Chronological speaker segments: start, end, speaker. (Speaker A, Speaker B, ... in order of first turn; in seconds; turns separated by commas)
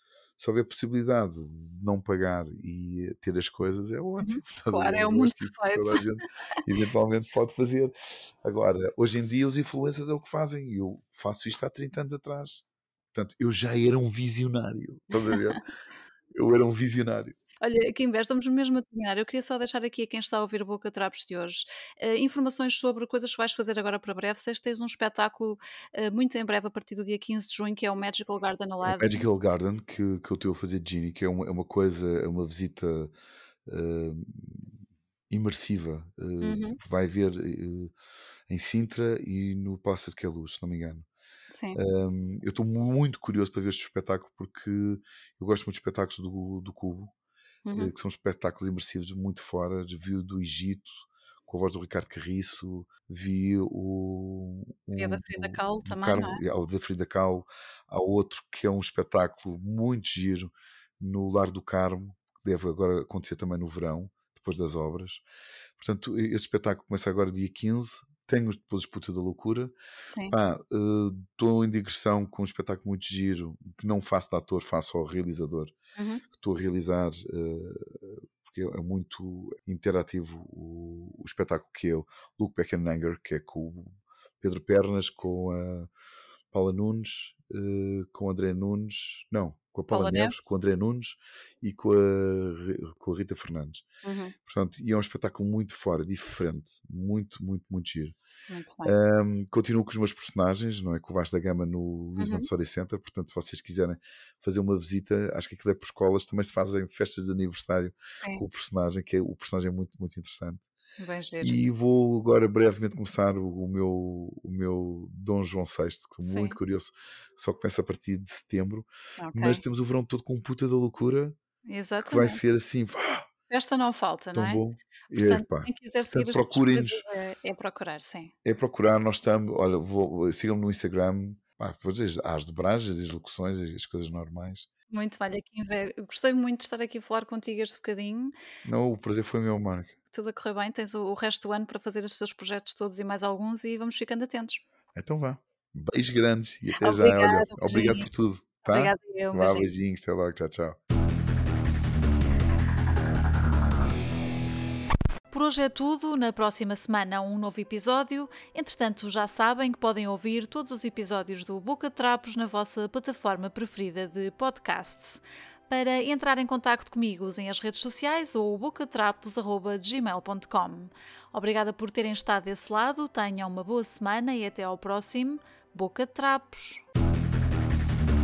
Speaker A: 0.4-15.6, Speaker B: 4.2-6.0, Speaker A: 16.3-17.4, Speaker B: 17.6-29.2, Speaker A: 28.8-33.1, Speaker A: 33.6-34.8, Speaker A: 35.3-37.9, Speaker B: 36.4-36.8, Speaker A: 38.5-41.1, Speaker B: 41.5-41.8, Speaker A: 41.7-47.1, Speaker B: 47.6-47.9, Speaker A: 47.7-50.9, Speaker A: 51.5-65.2, Speaker B: 55.0-56.4, Speaker A: 65.8-69.7, Speaker B: 70.1-70.3, Speaker A: 70.3-75.7, Speaker B: 76.0-76.2, Speaker A: 76.3-85.9, Speaker A: 86.5-93.8, Speaker B: 89.9-90.4, Speaker B: 94.0-94.3, Speaker A: 94.4-98.1, Speaker B: 98.5-98.9, Speaker A: 98.8-110.6, Speaker B: 102.2-102.5, Speaker B: 108.2-108.5, Speaker B: 111.0-111.6, Speaker A: 111.4-121.4, Speaker B: 116.2-116.6, Speaker B: 119.2-119.6, Speaker B: 121.7-122.4, Speaker A: 122.0-123.3, Speaker B: 123.5-128.3, Speaker A: 124.3-127.0, Speaker A: 128.4-134.7, Speaker B: 134.9-138.3, Speaker A: 138.6-139.9, Speaker B: 140.1-144.6, Speaker A: 144.9-150.8, Speaker B: 146.8-148.1, Speaker B: 148.7-149.7, Speaker B: 155.3-176.8